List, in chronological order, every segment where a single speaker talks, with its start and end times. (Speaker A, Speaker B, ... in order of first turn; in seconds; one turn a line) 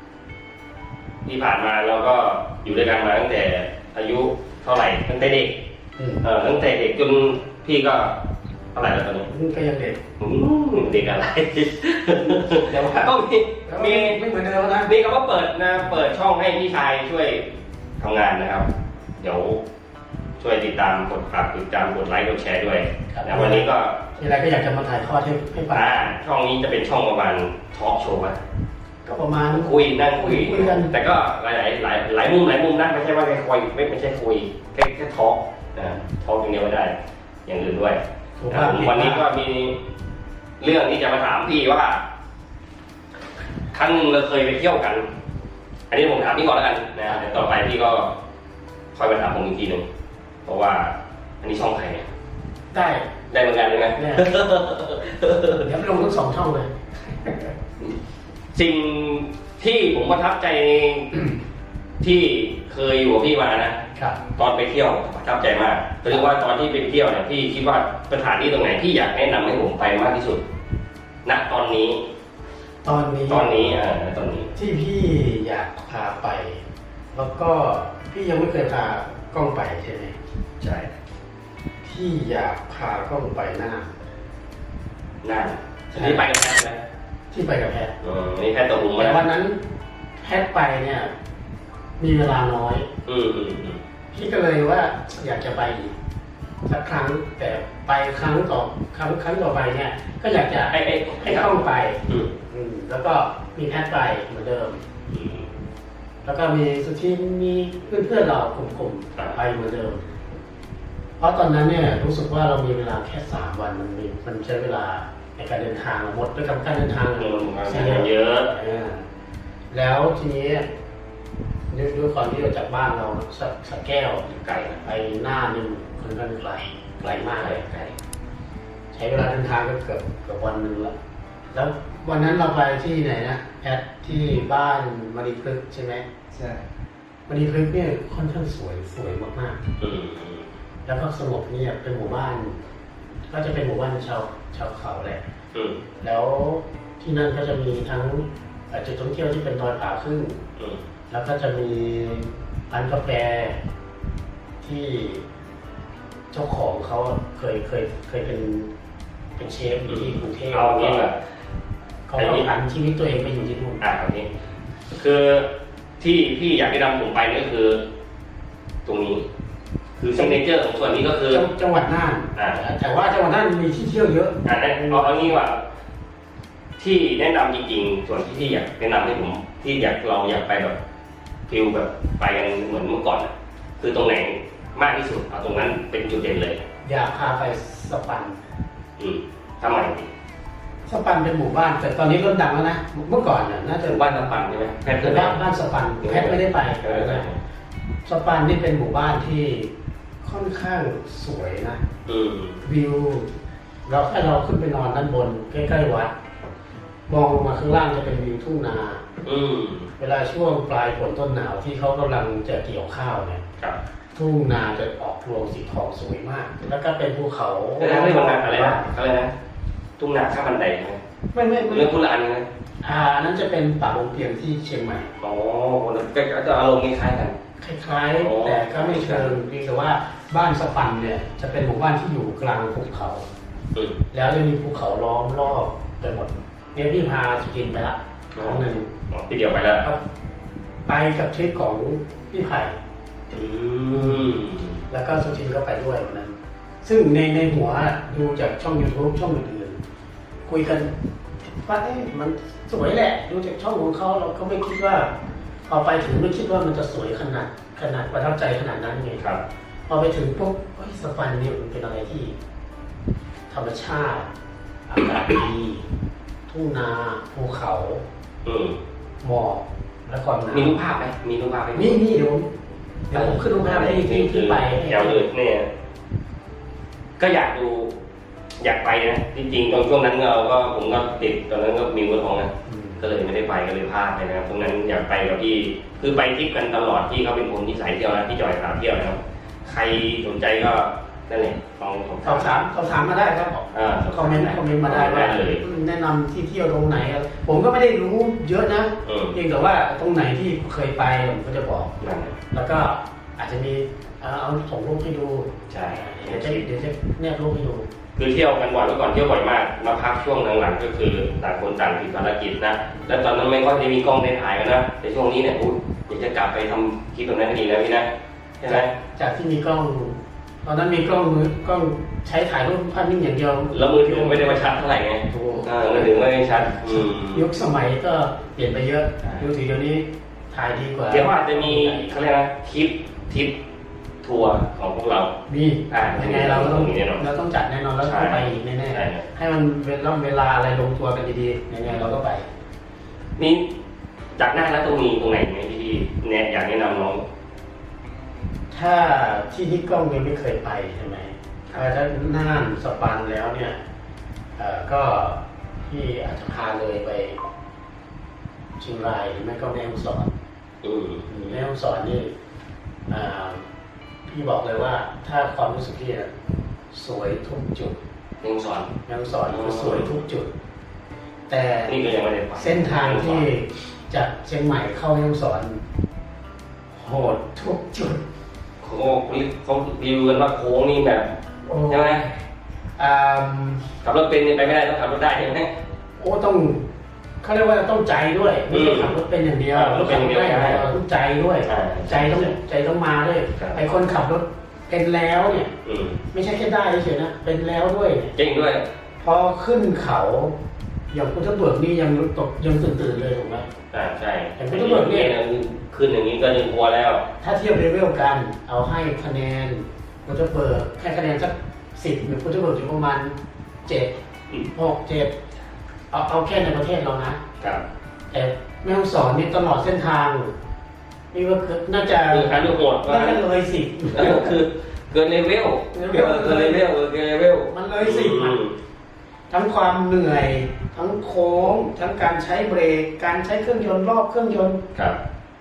Speaker A: 1.2-5.6
Speaker B: 6.0-6.3
Speaker A: 6.2-8.2
Speaker A: 8.7-9.3
Speaker B: 9.3-10.0
Speaker A: 10.2-14.2
Speaker B: 12.5-14.9
Speaker A: 14.8-18.7
Speaker A: 19.2-19.6
Speaker A: 20.4-24.0
Speaker B: 23.1-23.7
Speaker B: 24.2-26.1
Speaker A: 25.7-28.4
Speaker B: 29.0-30.9
Speaker A: 29.5-36.9
Speaker A: 37.5-38.0
Speaker B: 38.4-39.3
Speaker A: 38.5-39.8
Speaker A: 40.6-42.0
Speaker A: 43.7-45.1
Speaker A: 45.9-48.1
Speaker A: 48.9-49.8
Speaker A: 50.4-52.0
Speaker B: 52.7-53.0
Speaker A: 53.3-55.7
Speaker B: 54.0-54.3
Speaker B: 55.6-56.7
Speaker B: 57.2-57.5
Speaker A: 58.5-61.3
Speaker A: 62.0-63.8
Speaker A: 64.3-70.4
Speaker A: 71.2-72.0
Speaker B: 72.8-73.8
Speaker A: 73.3-74.5
Speaker B: 74.5-80.2
Speaker A: 80.6-80.9
Speaker B: 81.8-84.0
Speaker A: 85.2-86.8
Speaker B: 85.9-86.3
Speaker B: 87.3-88.0
Speaker A: 88.0-89.3
Speaker B: 89.0-89.6
Speaker B: 90.2-91.1
Speaker B: 92.0-92.9
Speaker A: 93.0-93.8
Speaker B: 94.1-95.9
Speaker B: 96.7-104.8
Speaker A: 100.7-102.3
Speaker A: 105.1-105.5
Speaker B: 106.2-110.0
Speaker B: 111.2-119.0
Speaker A: 117.2-118.5
Speaker B: 119.7-120.6
Speaker B: 121.7-124.3
Speaker A: 124.3-124.8
Speaker B: 124.8-127.6
Speaker A: 127.0-127.9
Speaker B: 128.9-130.9
Speaker B: 131.5-136.1
Speaker A: 136.3-136.6
Speaker B: 137.3-139.6
Speaker A: 139.8-140.5
Speaker B: 140.8-142.6
Speaker B: 143.3-145.2
Speaker A: 145.5-145.8
Speaker B: 146.0-150.4
Speaker B: 151.1-153.6
Speaker B: 154.6-155.2
Speaker B: 156.3-158.7
Speaker B: 159.4-161.1
Speaker A: 159.8-161.1
Speaker B: 162.1-163.8
Speaker A: 162.2-162.4
Speaker A: 163.8-164.3
Speaker A: 164.9-165.5
Speaker A: 166.0-167.8
Speaker A: 168.8-169.2
Speaker A: 170.0-171.4
Speaker B: 170.1-170.4
Speaker B: 171.3-175.4
Speaker A: 172.3-172.6
Speaker A: 174.4-175.6
Speaker A: 176.8-180.8
Speaker A: 181.5-186.6
Speaker B: 186.8-188.4
Speaker A: 189.0-190.1
Speaker B: 190.8-197.3
Speaker A: 193.8-195.4
Speaker A: 196.0-197.4
Speaker B: 198.0-201.8
Speaker A: 202.1-202.6
Speaker B: 202.6-203.3
Speaker B: 203.8-206.1
Speaker B: 207.1-209.0
Speaker A: 209.2-209.9
Speaker B: 210.0-213.4
Speaker B: 214.1-218.9
Speaker A: 217.8-219.3
Speaker A: 220.0-221.0
Speaker B: 221.3-221.9
Speaker A: 221.6-222.4
Speaker B: 222.8-225.1
Speaker A: 225.2-227.3
Speaker B: 227.6-233.2
Speaker A: 228.2-229.3
Speaker B: 234.1-238.9
Speaker A: 238.3-239.9
Speaker B: 240.8-242.7
Speaker A: 243.3-244.8
Speaker B: 243.9-244.4
Speaker B: 244.9-249.8
Speaker B: 250.4-250.9
Speaker B: 251.6-255.1
Speaker B: 255.7-259.2
Speaker A: 259.2-259.4
Speaker B: 259.9-262.3
Speaker B: 263.5-264.3
Speaker B: 264.9-265.9
Speaker B: 266.5-268.0
Speaker A: 268.4-268.8
Speaker B: 269.2-270.8
Speaker A: 270.5-272.0
Speaker B: 271.7-272.5
Speaker B: 273.1-275.2
Speaker A: 273.1-275.7
Speaker A: 277.2-277.9
Speaker A: 278.6-292.5
Speaker B: 282.6-283.1
Speaker B: 292.2-301.9
Speaker A: 293.7-295.6
Speaker A: 299.0-299.4
Speaker A: 302.0-302.4
Speaker B: 302.5-307.8
Speaker A: 305.7-306.6
Speaker A: 308.2-318.1
Speaker A: 318.6-318.9
Speaker B: 318.6-332.1
Speaker A: 323.7-327.4
Speaker A: 331.1-333.6
Speaker A: 334.2-335.3
Speaker B: 335.5-342.5
Speaker A: 335.9-337.2
Speaker A: 338.0-339.2
Speaker A: 343.4-343.7
Speaker A: 344.4-347.2
Speaker B: 348.7-353.8
Speaker B: 354.6-357.4
Speaker B: 358.8-360.3
Speaker A: 360.8-361.3
Speaker B: 361.3-362.3
Speaker B: 363.1-363.6
Speaker B: 364.2-366.3
Speaker B: 366.9-367.9
Speaker A: 368.4-368.9
Speaker B: 369.1-370.5
Speaker A: 369.5-370.2
Speaker B: 371.5-372.0
Speaker A: 371.9-373.4
Speaker B: 372.6-375.8
Speaker B: 376.9-378.2
Speaker A: 378.8-381.3
Speaker B: 381.6-382.3
Speaker A: 381.9-382.2
Speaker B: 383.0-383.9
Speaker A: 384.0-385.7
Speaker B: 386.2-386.9
Speaker B: 387.4-395.7
Speaker A: 388.7-389.1
Speaker A: 389.7-390.9
Speaker A: 391.6-392.6
Speaker A: 395.8-396.2
Speaker B: 396.3-398.3
Speaker A: 398.4-398.8
Speaker B: 399.2-400.5
Speaker B: 401.1-403.7
Speaker A: 403.9-407.2
Speaker B: 404.6-405.3
Speaker B: 407.4-413.3
Speaker B: 413.8-414.1
Speaker B: 414.7-415.3
Speaker B: 416.1-417.4
Speaker B: 418.3-420.5
Speaker B: 421.3-424.6
Speaker A: 422.2-423.4
Speaker A: 424.1-428.7
Speaker B: 425.9-426.9
Speaker B: 427.7-428.6
Speaker B: 429.5-434.8